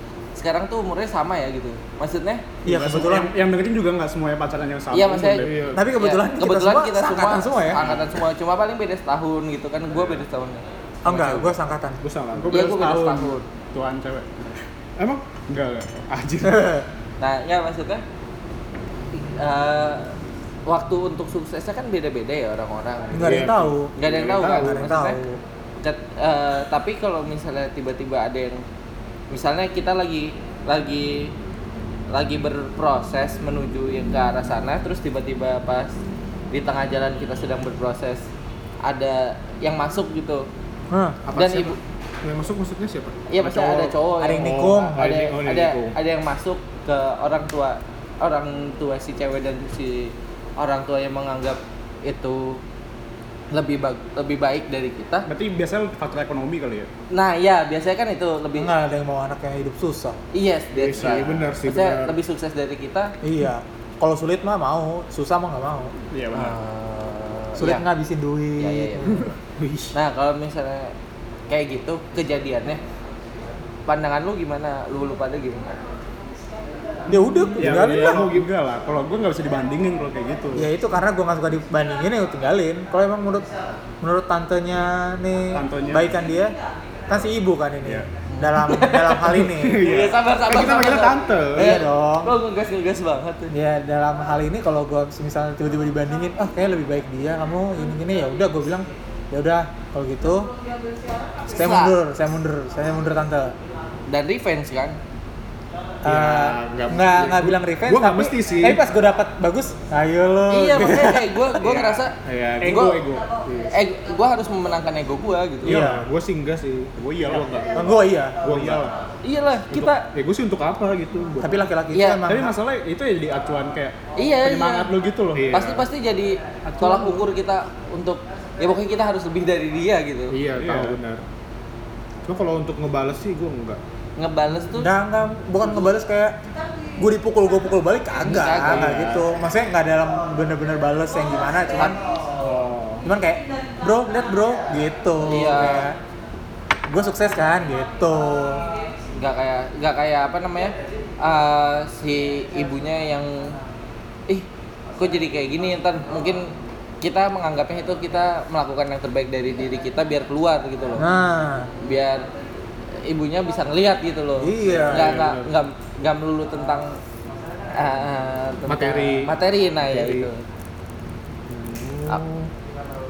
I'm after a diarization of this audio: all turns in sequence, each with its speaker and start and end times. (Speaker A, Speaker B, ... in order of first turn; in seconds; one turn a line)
Speaker A: 0.3-2.4
Speaker B: 2.6-3.3
Speaker C: 2.6-5.6
Speaker A: 4.9-11.6
Speaker D: 5.4-5.9
Speaker B: 5.7-7.8
Speaker B: 11.0-12.0
Speaker D: 12.0-12.6
Speaker C: 12.3-14.6
Speaker A: 12.5-13.4
Speaker C: 15.3-16.7
Speaker B: 16.4-16.9
Speaker A: 17.2-18.0
Speaker A: 19.1-20.1
Speaker A: 20.7-25.2
Speaker B: 23.1-25.4
Speaker D: 23.1-24.9
Speaker A: 25.8-28.6
Speaker A: 29.3-31.3
Speaker A: 32.1-35.9
Speaker A: 36.5-38.3
Speaker A: 38.8-40.5
Speaker B: 40.9-41.2
Speaker D: 41.2-46.0
Speaker A: 41.3-41.8
Speaker A: 43.3-52.6
Speaker B: 44.2-45.0
Speaker A: 53.5-55.3
Speaker C: 55.3-56.9
Speaker A: 57.1-58.7
Speaker B: 58.5-60.2
Speaker A: 60.3-63.1
Speaker D: 60.7-62.1
Speaker C: 60.9-61.3
Speaker B: 63.2-65.9
Speaker C: 66.1-66.5
Speaker A: 66.3-67.9
Speaker B: 67.6-69.3
Speaker A: 68.6-69.3
Speaker D: 69.6-69.9
Speaker A: 69.9-70.9
Speaker A: 71.5-72.8
Speaker A: 73.9-75.7
Speaker B: 77.1-78.2
Speaker D: 77.5-78.5
Speaker C: 77.6-80.7
Speaker B: 80.5-83.5
Speaker B: 84.0-86.5
Speaker C: 85.5-86.1
Speaker B: 87.1-89.9
Speaker A: 88.3-93.5
Speaker C: 89.2-90.6
Speaker D: 90.5-91.8
Speaker B: 91.5-92.3
Speaker B: 93.5-100.5
Speaker A: 101.5-102.0
Speaker B: 101.5-103.5
Speaker A: 104.1-105.0
Speaker B: 106.0-111.8
Speaker D: 106.0-108.8
Speaker A: 110.5-112.1
Speaker D: 112.2-113.7
Speaker C: 112.6-113.2
Speaker A: 112.7-113.0
Speaker A: 113.7-115.8
Speaker D: 115.6-118.9
Speaker B: 115.6-116.0
Speaker C: 117.0-119.0
Speaker B: 117.8-118.4
Speaker A: 119.2-120.1
Speaker D: 119.7-121.6
Speaker B: 121.4-122.5
Speaker A: 121.9-122.2
Speaker C: 122.2-125.6
Speaker A: 124.2-124.9
Speaker D: 125.3-125.9
Speaker A: 125.5-130.3
Speaker D: 126.7-127.2
Speaker D: 130.3-131.2
Speaker C: 130.6-131.0
Speaker D: 132.2-133.8
Speaker A: 134.2-134.9
Speaker B: 134.7-136.3
Speaker B: 137.0-142.0
Speaker A: 138.2-139.0
Speaker D: 138.6-139.2
Speaker D: 142.3-143.0
Speaker B: 143.0-146.0
Speaker A: 145.2-145.9
Speaker B: 146.9-148.7
Speaker A: 149.1-153.6
Speaker A: 154.3-161.1
Speaker B: 161.0-161.7
Speaker A: 161.8-162.3
Speaker A: 163.0-167.0
Speaker B: 164.4-165.2
Speaker D: 164.8-165.5
Speaker A: 167.7-170.4
Speaker D: 168.7-170.3
Speaker D: 171.5-172.5